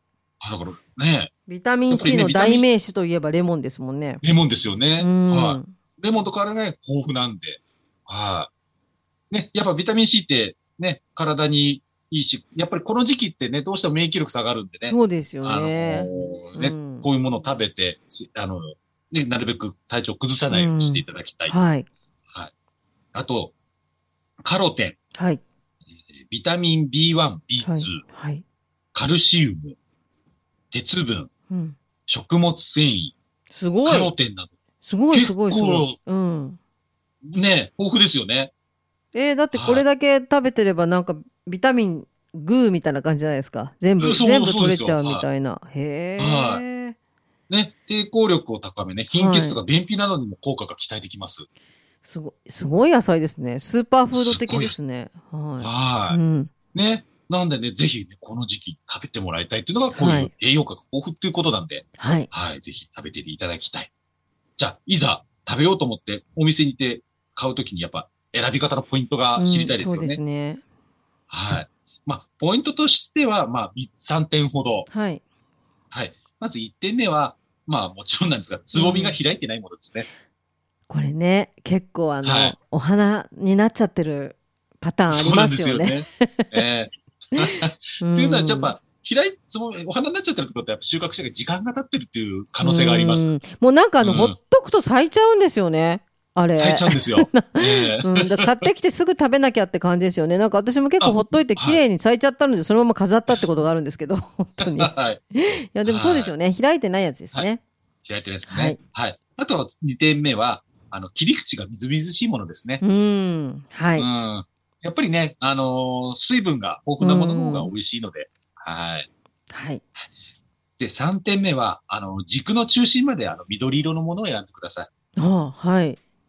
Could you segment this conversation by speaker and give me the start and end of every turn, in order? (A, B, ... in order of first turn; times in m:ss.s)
0:00.4-0:01.3 A
0:01.5-0:04.2 B
0:01.9-0:02.7 A
0:04.2-0:08.5 A
0:05.0-0:05.7 B
0:09.3-0:21.6 A
0:14.9-0:17.1 B
0:20.5-0:21.9 B
0:23.1-0:23.5 A
0:24.4-0:25.0 A
0:25.2-0:25.4 B
0:26.2-0:28.0 A
0:27.6-0:28.4 B
0:28.9-0:29.8 A
0:30.7-0:31.3 A
0:31.5-0:31.8 B
0:32.1-0:33.1 A
0:33.5-0:34.1 B
0:33.8-0:34.5 A
0:34.8-0:36.6 B
0:35.1-0:36.0 A
0:37.2-0:38.5 A
0:39.1-0:47.0 B
0:39.5-0:39.9 A
0:44.0-0:45.2 A
0:46.2-0:46.6 A
0:47.5-0:51.5 A
0:49.1-0:49.6 B
0:52.0-0:56.5 B
0:54.1-0:54.8 A
0:55.6-0:56.2 A
0:56.7-1:03.9 A
0:59.9-1:00.3 B
1:02.0-1:02.3 B
1:04.6-1:10.2 A
1:09.4-1:10.6 B
1:11.3-1:14.9 A
1:14.9-1:15.2 B
1:15.9-1:20.1 A
1:18.7-1:19.2 B
1:20.9-1:26.6 B
1:22.2-1:22.6 A
1:25.1-1:33.3 A
1:27.4-1:28.7 B
1:32.6-1:47.6 B
1:34.0-1:34.4 A
1:36.6-1:38.7 A
1:41.0-1:41.8 A
1:44.6-1:45.2 A
1:45.8-1:46.3 A
1:48.0-1:52.8 A
1:48.5-1:48.8 B
1:52.8-1:54.1 B
1:54.0-1:59.1 A
1:57.0-1:57.7 B
1:59.5-1:59.8 B
2:00.8-2:04.9 A
2:05.2-2:06.0 B